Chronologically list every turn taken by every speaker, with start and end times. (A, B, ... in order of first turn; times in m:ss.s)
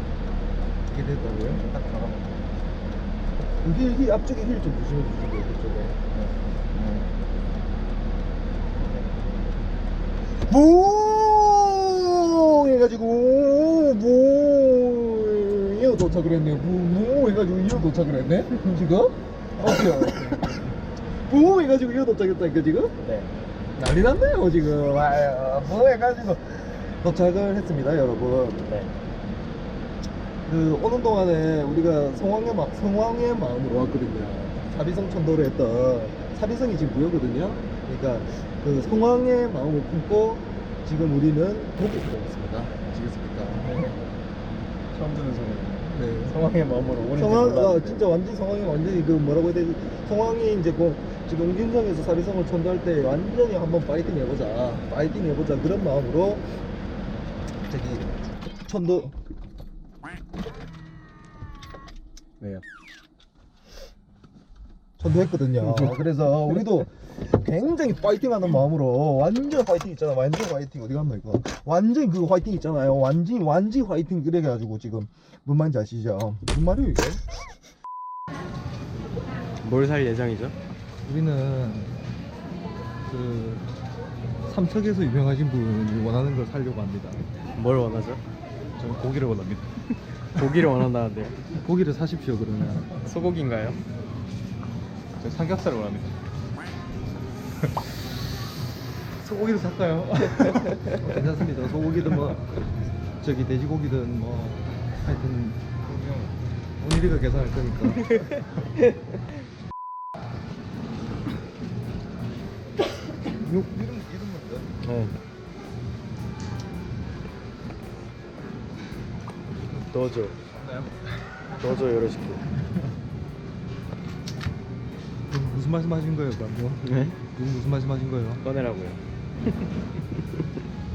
0:00.9-0:01.6 A
0:01.5-0:02.7 B
0:03.6-0:06.0 A
0:06.1-0:07.1 B
0:08.8-0:09.4 B
0:10.5-0:22.9 A
0:23.0-0:23.3 B
0:23.8-0:28.6 A
0:28.6-0:28.9 B
0:30.4-0:43.7 A
0:43.5-0:44.1 B
0:44.9-0:48.0 B
0:45.8-0:46.4 A
0:47.1-0:56.6 A
0:57.6-0:58.1 A
0:58.6-0:59.1 A
1:05.0-1:17.2 A
1:19.6-1:20.6 B
1:21.0-1:21.9 A
1:23.1-1:23.6 A
1:24.4-1:27.2 A
1:27.5-1:28.2 B
1:28.8-1:29.8 A
1:30.3-1:31.4 B
1:31.5-1:33.0 A
1:33.0-1:33.8 B
1:35.2-1:36.1 A
1:39.2-1:42.6 A
1:43.2-1:48.3 A
1:53.3-1:54.7 A
1:54.8-1:55.1 B
1:59.6-2:02.0 A
1:59.9-2:00.4 B
2:01.6-2:02.4 B
2:05.3-2:06.8 A
2:06.8-2:07.2 B
2:07.3-2:08.4 A
2:08.4-2:09.0 B